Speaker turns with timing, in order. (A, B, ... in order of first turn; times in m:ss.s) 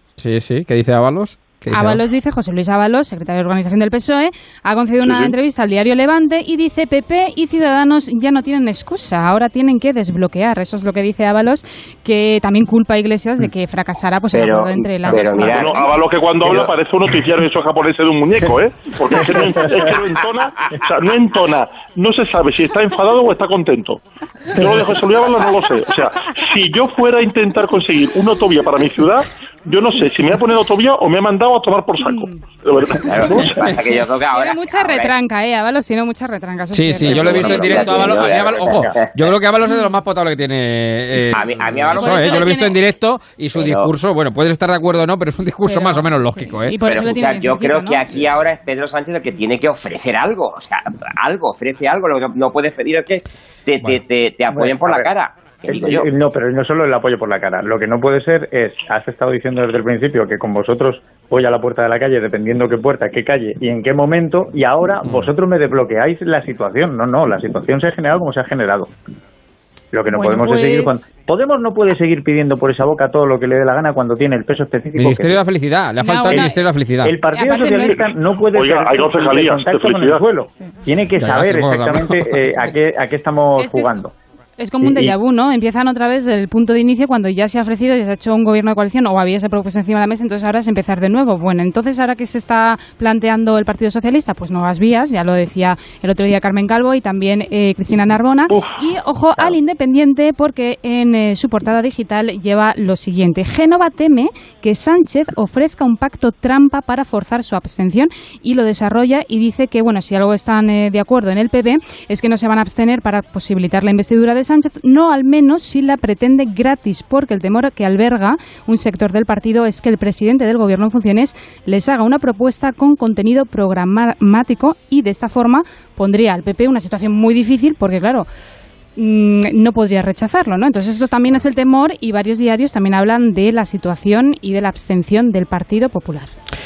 0:00.2-0:02.0 A
0:01.7-0:16.0 B
0:14.3-0:15.9 C
0:15.5-0:24.0 D
0:16.4-0:16.7 C
0:19.2-0:19.5 E
0:19.9-0:20.7 C
0:24.5-0:33.6 D
0:32.0-0:32.4 B
0:33.0-0:35.2 C
0:33.1-0:33.5 B
0:34.3-0:38.3 B
0:36.7-0:46.8 A
0:37.2-0:39.0 E
0:37.2-0:39.3 C
0:39.6-0:39.9 B
0:41.3-0:42.4 C
0:41.9-0:42.8 B
0:43.6-0:43.9 C
0:45.7-0:48.0 B
0:46.9-0:56.1 C
0:54.5-0:55.1 E
0:55.6-1:08.9 E
1:05.0-1:05.3 A
1:09.9-1:15.4 E
1:10.1-1:11.0 B
1:15.0-1:17.1 A
1:16.0-1:16.6 B
1:17.0-1:24.1 E
1:17.3-1:18.1 B
1:18.5-1:20.2 D
1:21.2-1:22.4 A
1:23.6-1:24.0 B
1:24.6-2:08.3 B
1:24.8-1:25.2 E
1:38.5-1:38.8 D
2:09.0-2:16.3 B